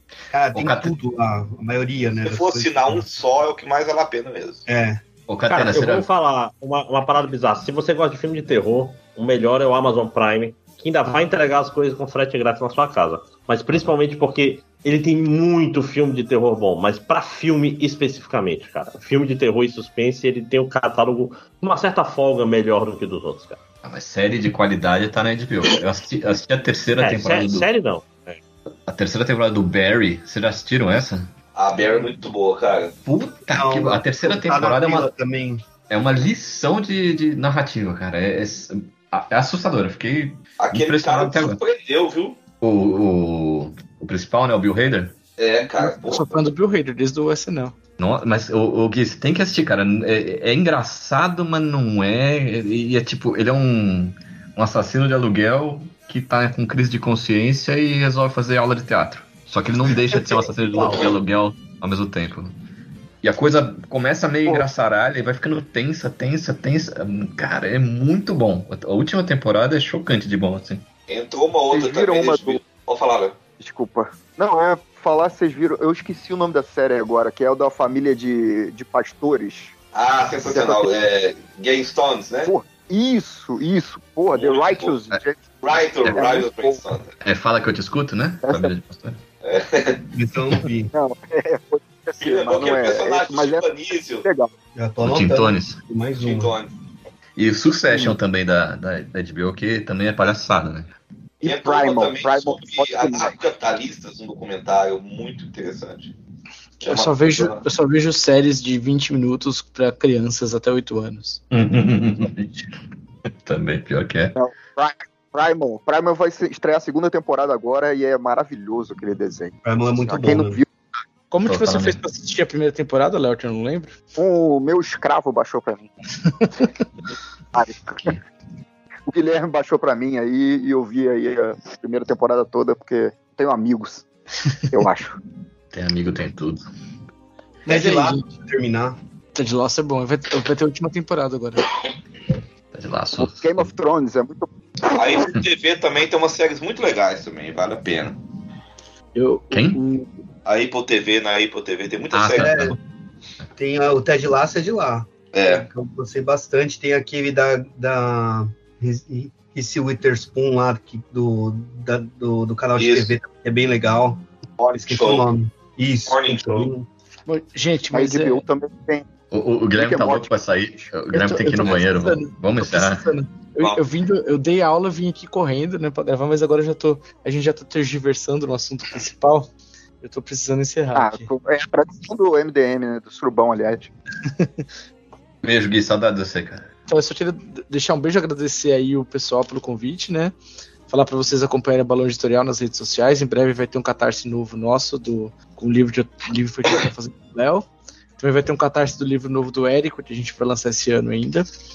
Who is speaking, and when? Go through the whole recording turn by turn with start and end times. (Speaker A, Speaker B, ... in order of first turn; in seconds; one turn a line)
Speaker A: 0.3-3.1
Speaker B: 0.5-0.9
Speaker C: 2.2-4.7
Speaker A: 4.7-5.0
Speaker B: 5.3-6.1
Speaker D: 5.5-23.6
Speaker B: 23.8-27.7
Speaker D: 27.0-28.4
Speaker B: 28.9-31.3
Speaker C: 31.5-33.0
Speaker A: 33.0-35.6
Speaker B: 33.4-35.1
Speaker B: 35.9-41.6
Speaker C: 40.6-42.4
Speaker B: 42.6-45.2
Speaker C: 45.4-46.4
Speaker E: 45.8-47.7
Speaker B: 48.0-62.5
Speaker D: 60.8-61.0
Speaker B: 63.2-70.8
Speaker C: 71.1-73.4
Speaker F: 71.7-72.6
Speaker F: 73.6-79.7
Speaker C: 79.9-82.5
Speaker F: 80.5-80.9
Speaker F: 82.4-86.8
Speaker C: 84.3-85.0
Speaker C: 85.6-87.1
Speaker B: 87.2-89.2
Speaker F: 88.4-88.7
Speaker C: 89.4-90.0
Speaker A: 90.1-90.9
Speaker F: 90.9-93.7
Speaker C: 92.2-94.2
Speaker F: 94.2-94.5
Speaker A: 94.8-96.5
Speaker B: 95.0-95.8
Speaker C: 96.2-96.7
Speaker B: 97.3-100.9
Speaker F: 97.9-98.2
Speaker F: 101.4-103.4
Speaker C: 101.4-106.1
Speaker C: 106.8-107.6
Speaker E: 106.8-111.4
Speaker B: 111.5-112.7
Speaker B: 113.3-114.3
Speaker F: 114.3-120.7
Speaker A: 119.6-120.6
Speaker E: 121.3-124.0
Speaker B: 121.4-122.0
Speaker F: 124.2-125.9
Speaker E: 126.3-126.7
Speaker F: 127.5-128.2
Speaker F: 129.1-134.1
Speaker F: 134.7-135.2
Speaker B: 135.7-136.6
Speaker E: 137.7-138.3
Speaker A: 137.7-139.0
Speaker E: 139.3-141.6
Speaker B: 142.7-143.7
Speaker F: 143.2-145.2
Speaker C: 144.9-148.2
Speaker E: 149.1-150.1
Speaker B: 149.5-149.8
Speaker C: 150.4-152.6
Speaker B: 152.1-152.8
Speaker A: 152.3-152.8
Speaker A: 153.6-164.2
Speaker C: 155.3-155.7
Speaker C: 162.8-163.2
Speaker C: 164.6-165.3
Speaker A: 164.8-166.8
Speaker C: 166.1-166.7
Speaker E: 167.3-168.4
Speaker F: 167.9-169.1
Speaker B: 169.3-173.1
Speaker F: 169.7-170.4
Speaker E: 171.1-179.5
Speaker E: 180.0-181.2
Speaker F: 180.9-183.9
Speaker B: 185.4-186.7
Speaker E: 186.9-190.3
Speaker E: 190.9-201.4